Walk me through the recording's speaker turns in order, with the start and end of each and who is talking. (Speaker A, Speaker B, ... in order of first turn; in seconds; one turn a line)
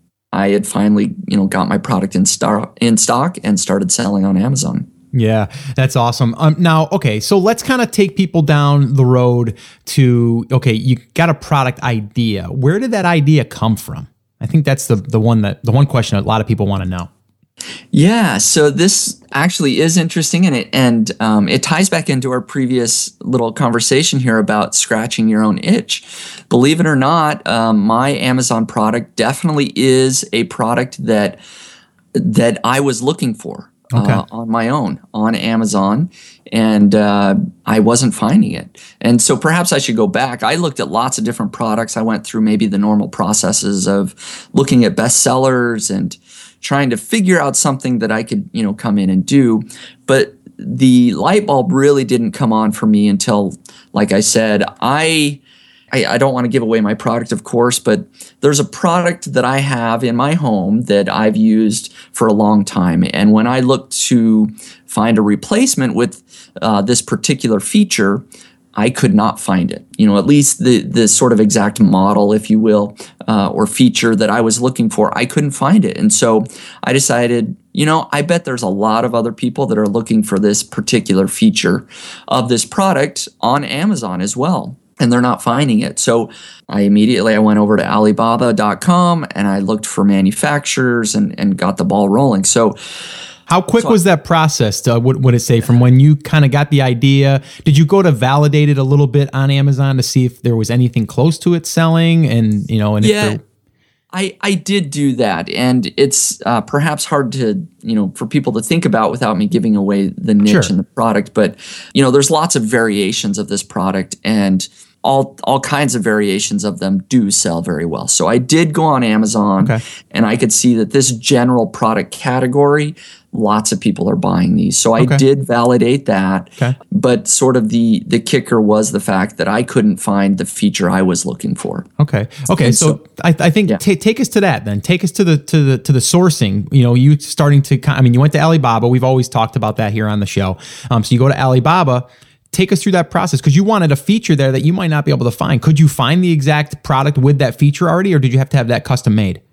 Speaker A: 0.3-4.9
Speaker B: 5.1-17.1
Speaker A: 17.9-31.4
Speaker A: 32.1-68.2
Speaker B: 33.9-34.2
Speaker A: 68.7-92.8
Speaker B: 93.5-103.4
Speaker A: 103.0-103.4
Speaker A: 104.1-131.9
Speaker B: 110.4-110.7
Speaker B: 132.0-149.4
Speaker A: 132.6-133.0